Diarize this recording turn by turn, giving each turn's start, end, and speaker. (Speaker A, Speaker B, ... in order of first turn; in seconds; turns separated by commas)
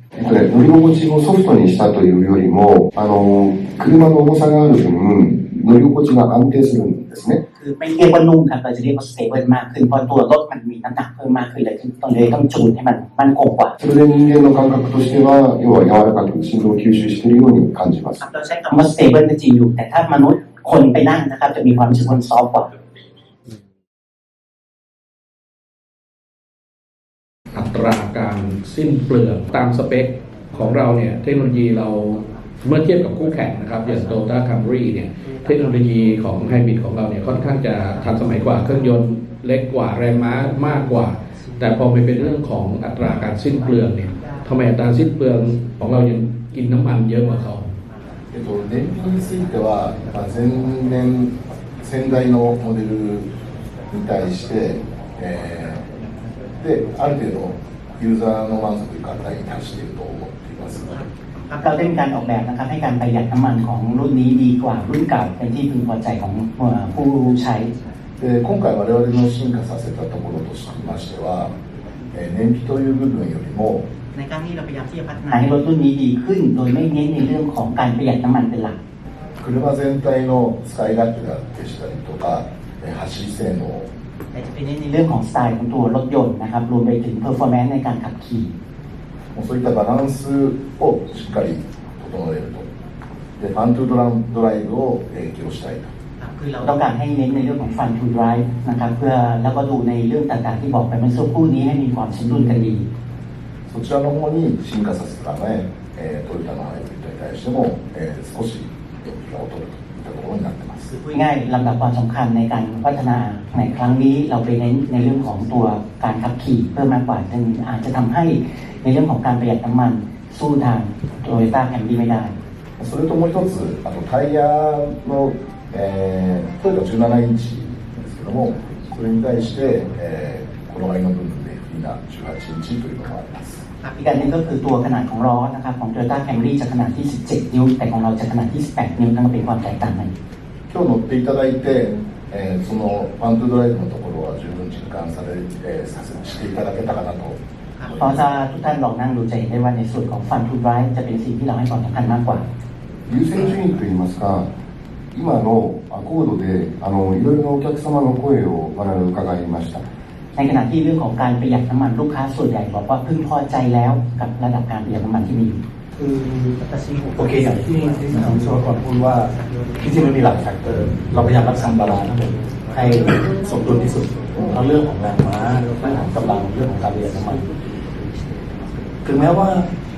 Speaker A: 0.2-7.4, Speaker B: 7.5-13.8, Speaker A: 13.8-18.2, Speaker B: 18.2-22.7, Speaker C: 27.5-47.8, Speaker D: 48.3-53.3, Speaker D: 53.9-55.9, Speaker D: 56.6-61.0, Speaker B: 61.5-67.7, Speaker D: 68.2-71.5, Speaker D: 72.1-73.9, Speaker B: 74.1-78.8, Speaker D: 79.4-83.9, Speaker B: 84.3-88.5, Speaker D: 89.3-92.7, Speaker D: 93.4-95.9, Speaker B: 96.2-102.9, Speaker D: 103.7-110.9, Speaker B: 111.1-122.3, Speaker D: 122.8-133.6, Speaker B: 133.8-140.1, Speaker D: 140.7-148.4, Speaker B: 148.0-152.4, Speaker A: 153.1-154.5, Speaker A: 155.1-159.8, Speaker B: 160.3-165.6, Speaker E: 166.0-166.5, Speaker E: 167.1-177.5, Speaker E: 179.1-179.7